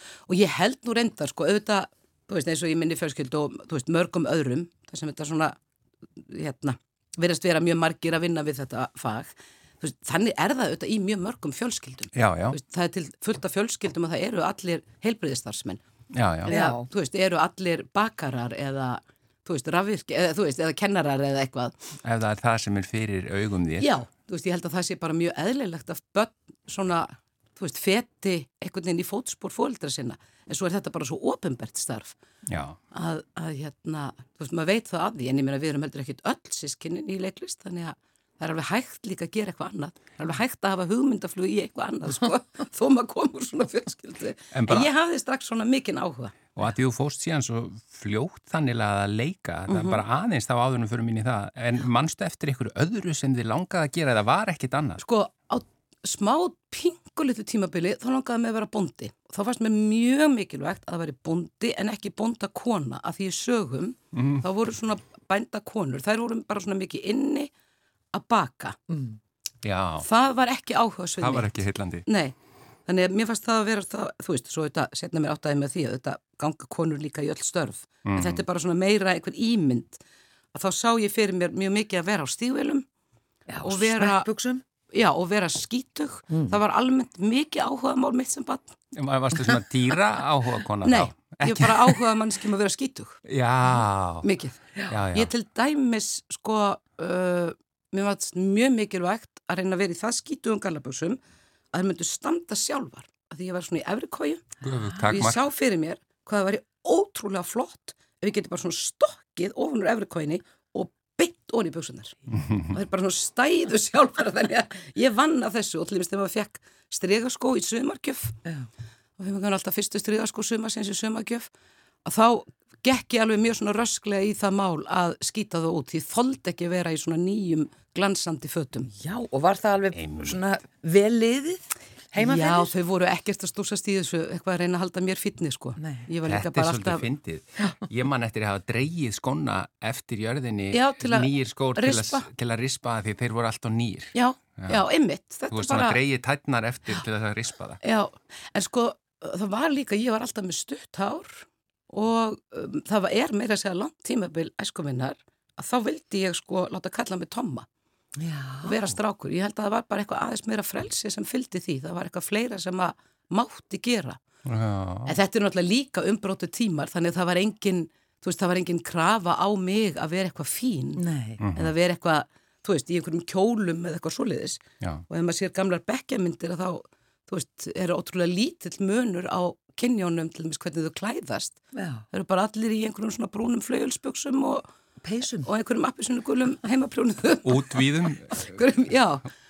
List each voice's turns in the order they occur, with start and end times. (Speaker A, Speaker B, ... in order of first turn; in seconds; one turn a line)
Speaker A: 0.3-5.6
Speaker A: 6.2-15.8
Speaker B: 12.1-12.6
Speaker B: 16.1-16.6
Speaker A: 16.4-21.7
Speaker C: 16.5-16.9
Speaker B: 22.0-23.9
Speaker A: 23.8-32.2
Speaker B: 32.5-32.8
Speaker A: 32.9-46.5
Speaker B: 44.5-44.9
Speaker B: 46.5-55.0
Speaker A: 49.7-50.0
Speaker A: 55.0-67.5
Speaker B: 64.1-64.5
Speaker A: 68.1-68.8
Speaker C: 68.9-69.2
Speaker B: 69.6-70.1
Speaker A: 70.0-71.5
Speaker B: 71.2-72.0
Speaker A: 72.1-80.0
Speaker B: 78.0-78.4
Speaker A: 80.5-82.8
Speaker C: 83.5-84.6
Speaker A: 83.6-84.3
Speaker A: 84.9-88.8
Speaker C: 86.3-86.6
Speaker B: 88.9-92.0
Speaker A: 90.8-93.2
Speaker B: 93.3-94.3
Speaker A: 94.2-101.2
Speaker B: 94.9-95.3
Speaker A: 101.7-104.4
Speaker B: 104.6-105.4
Speaker A: 105.1-112.2
Speaker B: 112.3-112.8
Speaker A: 112.7-118.4
Speaker A: 119.2-121.5
Speaker A: 122.0-128.9
Speaker C: 128.9-132.7
Speaker B: 129.9-130.4
Speaker A: 132.2-137.0
Speaker C: 135.8-136.1
Speaker B: 136.3-144.8
Speaker A: 140.7-142.3
Speaker A: 144.1-146.0
Speaker B: 145.5-147.8
Speaker A: 147.8-157.7
Speaker C: 158.2-158.8
Speaker A: 158.6-164.2
Speaker B: 164.5-165.2
Speaker A: 165.1-181.6
Speaker C: 171.0-171.4
Speaker B: 171.4-171.7
Speaker C: 181.7-182.1
Speaker A: 182.1-184.7
Speaker C: 185.0-185.5
Speaker A: 185.4-189.3
Speaker B: 187.4-188.6